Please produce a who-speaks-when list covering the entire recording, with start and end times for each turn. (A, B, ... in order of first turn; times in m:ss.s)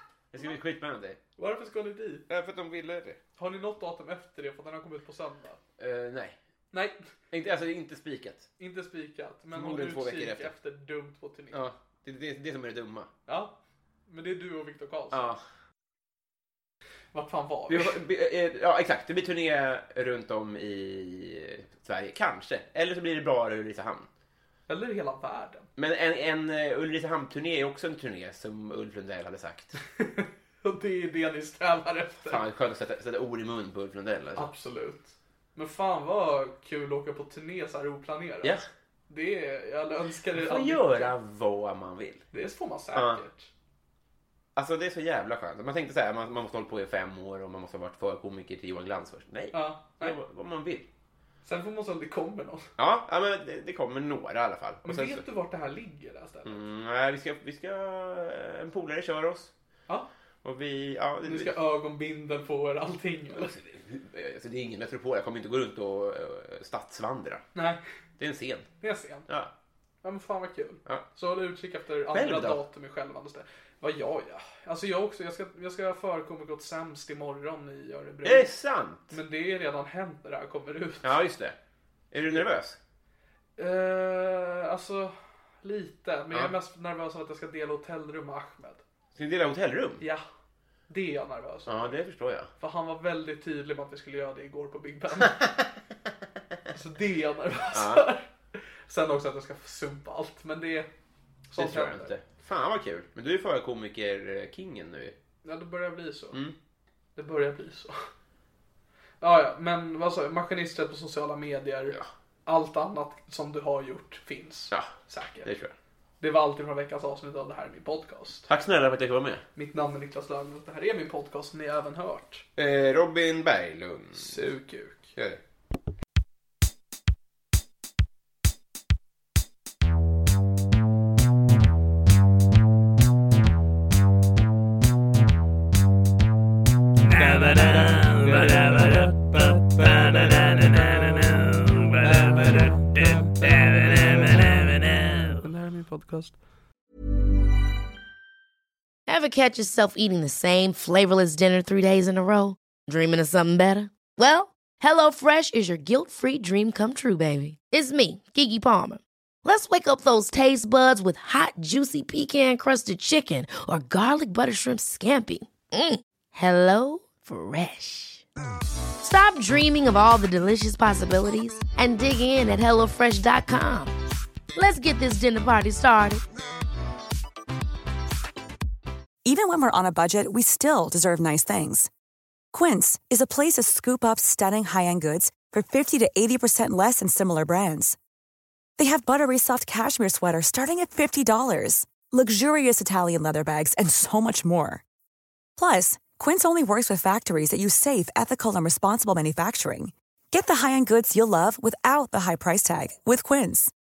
0:00.3-0:01.2 A
0:01.4-0:02.2 B
0:02.3-0:03.2 A
0:03.4-0:05.6 B
0:05.8-0:06.4 A
0:06.7-0:07.0 B
0:07.3-0:08.5 A
0:08.6-0:11.6 B
0:09.5-0:10.5 A
0:11.5-0:13.1 A
0:13.3-0:13.5 B
0:14.1-0:15.3 B
0:15.1-0:15.4 A
0:17.1-0:18.0 B
0:17.7-0:24.1 A
0:24.7-0:25.6 B
0:25.8-0:29.8 A
0:30.0-0:32.4 B
0:32.2-0:34.5 A
0:34.4-0:38.6 B
0:39.1-0:41.1 B
0:40.3-0:42.2 A
0:42.3-0:43.5 B
0:42.9-0:43.2 A
0:44.6-0:50.8 A
0:49.5-0:50.2 B
0:51.4-0:52.7 B
0:52.8-0:55.2 A
0:54.8-0:56.6 B
0:56.4-0:59.5 A
1:00.4-1:01.5 A
1:01.2-1:03.5 B
1:03.3-1:07.4 A
1:08.2-1:08.7 A
1:08.8-1:09.3 B
1:10.0-1:18.5 B
1:12.1-1:12.6 A
1:18.2-1:19.2 A
1:19.1-1:21.2 B
1:21.0-1:21.6 A
1:22.1-1:22.8 A
1:23.6-1:28.8 B
1:29.2-1:30.0 A
1:30.9-1:32.0 B
1:31.7-1:32.5 A
1:32.6-1:35.5 B
1:36.7-1:40.9 B
1:37.7-1:38.0 A
1:41.5-1:42.1 B
1:41.6-1:45.1 A
1:45.4-1:46.4 B
1:47.2-1:48.1 B
1:49.2-1:55.5 B
1:55.4-1:55.7 A
1:56.2-1:58.5 B
1:58.5-1:59.4 A
1:59.6-2:02.4 B
2:02.6-2:04.4 A
2:04.1-2:05.1 B
2:17.1-2:26.4 B
2:29.1-2:48.2 C
2:49.0-2:53.9 C
2:54.5-2:56.2 C
2:59.2-3:01.9 D
3:02.5-3:08.0 D
3:08.8-3:14.8 D
3:15.6-3:23.7 D